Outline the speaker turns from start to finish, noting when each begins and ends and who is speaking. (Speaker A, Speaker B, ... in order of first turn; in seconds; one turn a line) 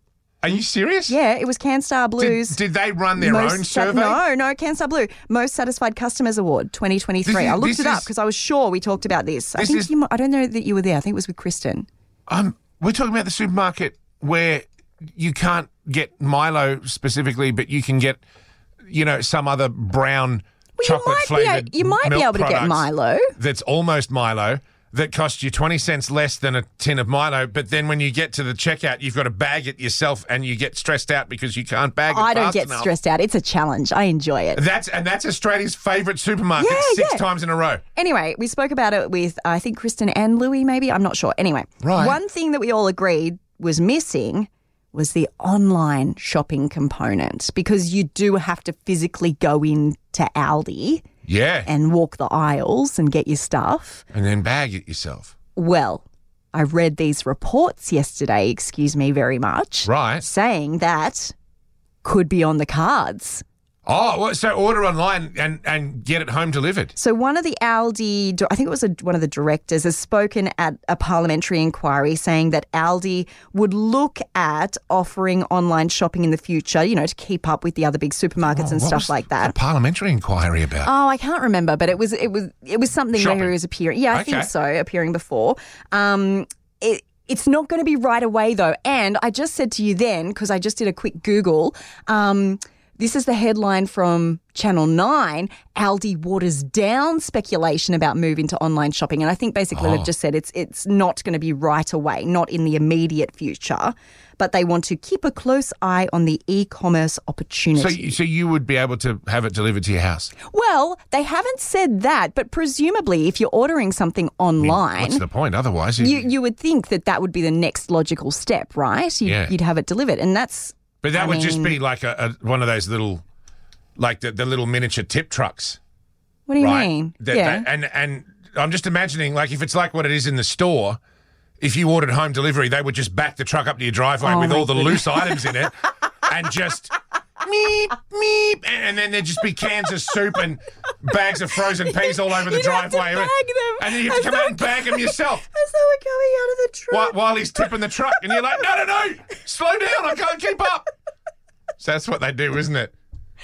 Speaker A: 0.4-1.1
Speaker B: 1.1-2.6
Speaker A: 2.2-4.2
Speaker B: 3.2-11.9
Speaker A: 7.3-8.1
Speaker A: 9.6-9.9
Speaker A: 12.3-18.2
Speaker A: 18.9-32.9
Speaker B: 20.8-23.3
Speaker B: 32.1-34.6
Speaker A: 34.6-37.8
Speaker B: 36.6-37.3
Speaker B: 38.0-51.0
Speaker A: 41.8-42.2
Speaker A: 51.3-51.7
Speaker B: 51.7-54.0
Speaker A: 54.1-55.3
Speaker B: 55.6-61.3
Speaker A: 59.8-60.2
Speaker B: 62.0-63.4
Speaker A: 63.9-66.9
Speaker B: 67.0-79.5
Speaker A: 78.5-80.9
Speaker B: 80.8-108.2
Speaker A: 83.2-83.5
Speaker A: 84.1-84.5
Speaker A: 99.7-100.1
Speaker A: 107.8-110.3
Speaker B: 110.5-115.2
Speaker A: 114.6-116.3
Speaker B: 116.0-121.8
Speaker A: 119.2-119.5
Speaker A: 121.0-123.2
Speaker A: 124.0-125.8
Speaker B: 126.5-127.7
Speaker A: 126.6-131.0
Speaker A: 131.6-145.4
Speaker B: 134.2-135.7
Speaker B: 141.8-148.4
Speaker A: 146.9-150.9
Speaker A: 151.8-152.9